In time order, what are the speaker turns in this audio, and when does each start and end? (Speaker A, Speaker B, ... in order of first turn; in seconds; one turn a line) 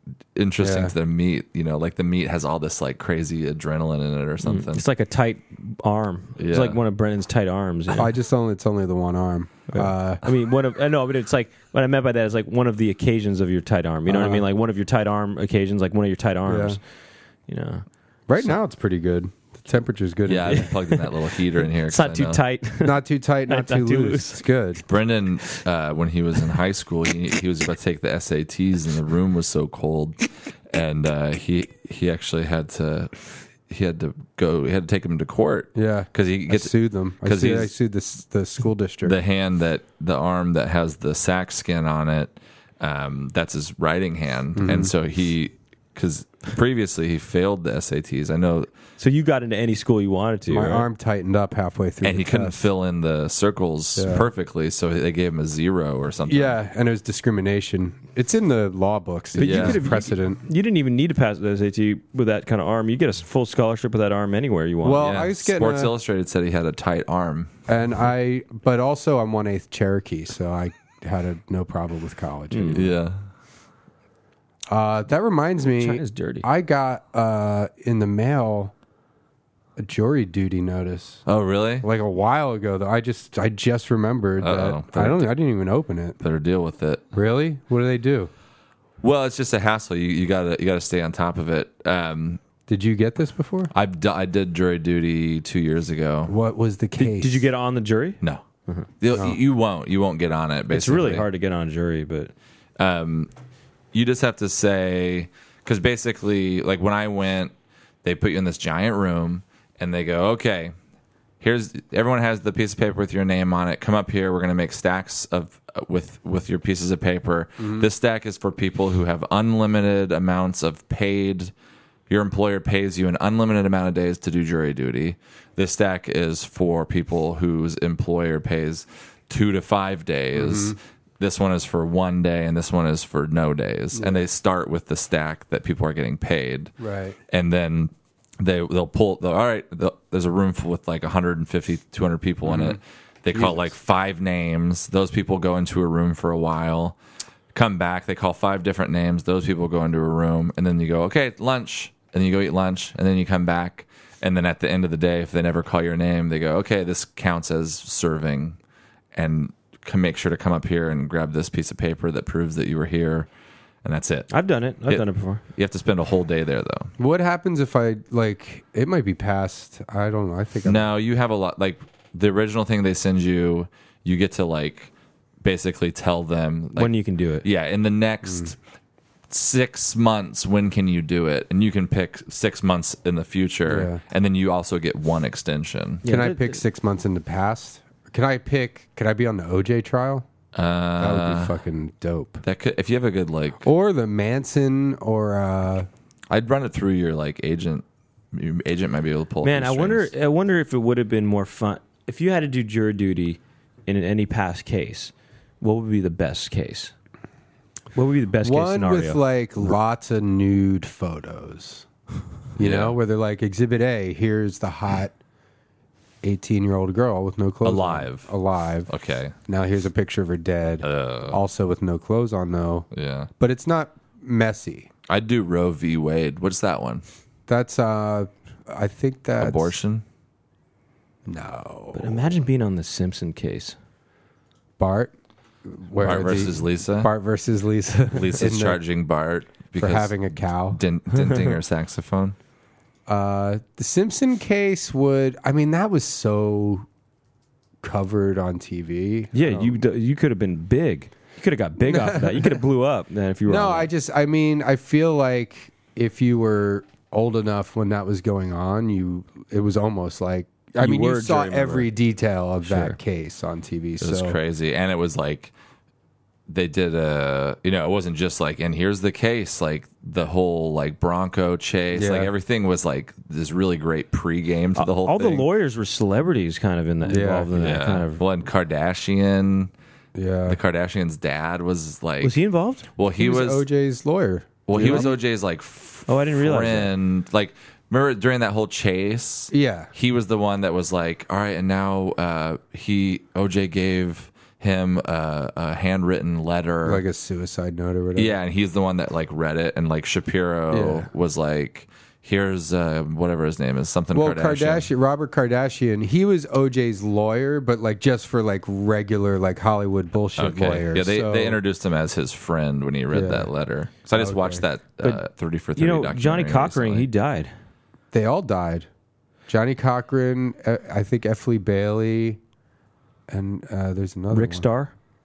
Speaker A: 0.3-4.8
Speaker B: 0.6-0.9
Speaker C: 4.4-8.1
Speaker A: 6.4-6.8
Speaker B: 7.9-10.2
Speaker C: 9.7-16.8
Speaker B: 14.1-14.4
Speaker B: 16.4-16.8
Speaker C: 17.5-17.9
Speaker B: 18.3-20.7
Speaker A: 20.3-22.4
Speaker C: 20.5-21.0
Speaker C: 21.9-24.4
Speaker B: 22.8-24.8
Speaker A: 24.9-37.7
Speaker B: 35.8-39.2
Speaker A: 39.0-48.7
Speaker B: 44.6-44.9
Speaker C: 49.0-50.9
Speaker B: 50.5-52.7
Speaker A: 52.0-56.5
Speaker B: 54.0-54.3
Speaker B: 56.3-60.4
Speaker C: 59.4-65.1
Speaker A: 59.4-59.9
Speaker B: 64.8-65.9
Speaker A: 65.0-67.5
Speaker B: 67.7-72.9
Speaker C: 72.5-72.8
Speaker A: 72.7-73.2
Speaker B: 74.7-78.7
Speaker C: 75.8-76.5
Speaker B: 79.8-81.2
Speaker A: 81.3-81.9
Speaker B: 81.8-86.2
Speaker A: 84.4-85.3
Speaker A: 86.2-87.0
Speaker B: 87.1-88.3
Speaker A: 89.0-92.4
Speaker B: 92.7-93.7
Speaker A: 93.7-96.3
Speaker B: 96.3-97.5
Speaker C: 97.0-98.9
Speaker A: 99.0-101.3
Speaker C: 100.7-102.3
Speaker A: 102.8-103.3
Speaker A: 103.9-107.5
Speaker A: 108.0-110.7
Speaker A: 111.4-121.5
Speaker B: 117.6-117.9
Speaker A: 122.1-136.7
Speaker B: 130.3-130.8
Speaker B: 133.9-134.3
Speaker B: 136.8-137.2
Speaker A: 137.3-147.0
Speaker B: 142.4-142.8
Speaker B: 143.3-143.7
Speaker A: 147.5-158.6
Speaker A: 159.2-163.3
Speaker A: 163.8-164.3
Speaker C: 164.3-165.4
Speaker A: 164.9-166.9
Speaker B: 167.0-170.9
Speaker A: 170.7-174.9
Speaker A: 175.4-178.6
Speaker C: 176.8-177.4
Speaker A: 179.3-186.1
Speaker B: 183.7-184.0
Speaker C: 186.0-186.6
Speaker B: 186.1-190.3
Speaker A: 190.6-191.5
Speaker B: 191.0-192.4
Speaker A: 192.4-193.7
Speaker B: 193.6-195.9
Speaker A: 196.3-200.1
Speaker C: 199.4-206.9
Speaker C: 207.9-209.2
Speaker B: 208.4-211.9
Speaker B: 212.6-215.2
Speaker A: 212.6-213.0
Speaker B: 216.2-218.9
Speaker A: 217.6-218.3
Speaker A: 218.9-219.3
Speaker B: 219.5-222.9
Speaker A: 220.8-221.4
Speaker A: 222.9-223.3
Speaker B: 223.4-224.9
Speaker A: 225.1-227.0
Speaker B: 227.5-229.7
Speaker A: 229.4-230.0
Speaker B: 231.3-232.4
Speaker C: 231.9-233.8
Speaker B: 234.8-235.1
Speaker B: 235.7-238.8
Speaker A: 236.0-237.1
Speaker A: 238.1-242.4
Speaker B: 239.8-240.8
Speaker C: 241.1-241.5
Speaker B: 243.1-246.9
Speaker B: 247.8-249.8
Speaker C: 249.3-253.9
Speaker B: 251.8-252.6
Speaker B: 253.5-264.4
Speaker C: 260.8-261.9
Speaker C: 262.7-263.0
Speaker A: 264.0-265.5
Speaker A: 266.5-275.5
Speaker B: 271.9-272.3
Speaker C: 274.8-278.2
Speaker B: 277.1-277.5
Speaker A: 277.6-279.7
Speaker B: 280.1-280.6
Speaker A: 280.5-282.4
Speaker C: 282.2-282.9
Speaker A: 283.0-283.7
Speaker B: 283.2-285.2
Speaker A: 284.7-297.0
Speaker C: 284.7-285.1
Speaker C: 286.1-286.9
Speaker B: 289.5-289.9
Speaker B: 296.8-298.3
Speaker A: 298.2-304.9
Speaker B: 300.7-301.1
Speaker B: 304.1-311.6
Speaker A: 310.4-317.1
Speaker B: 313.1-313.5
Speaker B: 314.1-314.6
Speaker C: 315.8-317.5
Speaker B: 318.1-318.9
Speaker B: 319.5-322.4
Speaker B: 323.3-324.7
Speaker C: 324.3-324.9